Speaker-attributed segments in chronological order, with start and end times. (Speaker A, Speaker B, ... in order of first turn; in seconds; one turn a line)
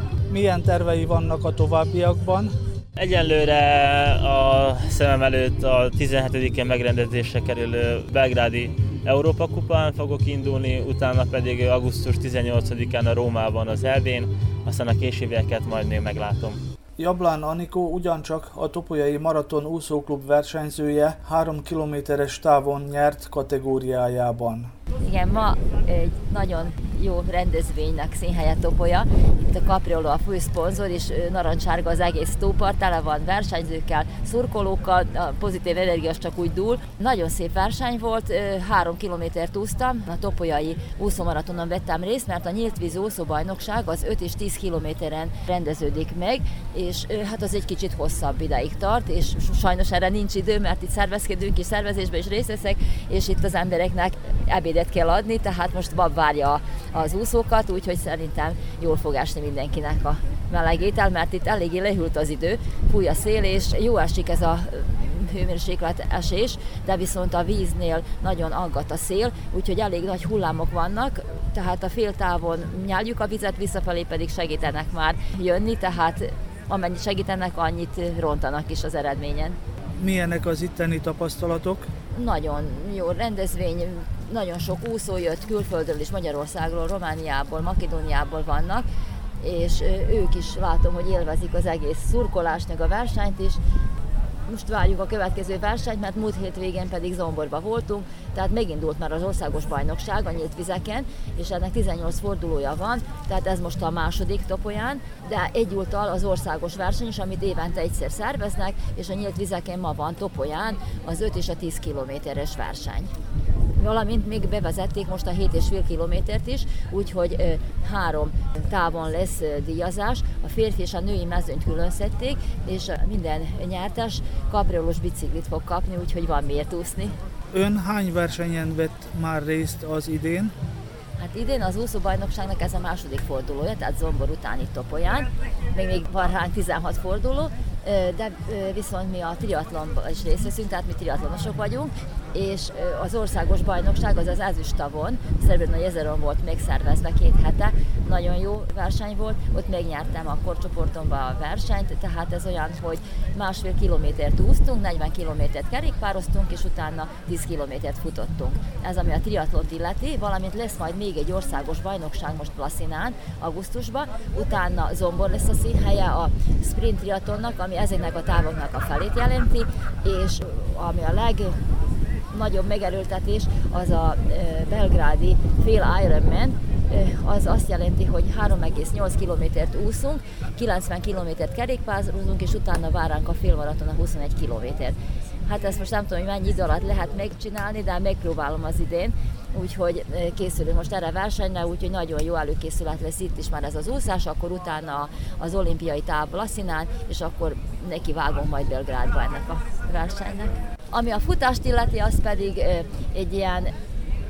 Speaker A: 0.3-2.6
Speaker B: 3.0-16.6
Speaker A: 17.0-24.7
Speaker C: 25.0-79.6
Speaker A: 80.0-81.9
Speaker C: 82.1-88.9
Speaker C: 89.4-93.6
Speaker C: 94.5-113.1
Speaker C: 113.8-127.2
Speaker A: 127.5-130.5
Speaker C: 131.2-171.6
Speaker C: 172.3-203.7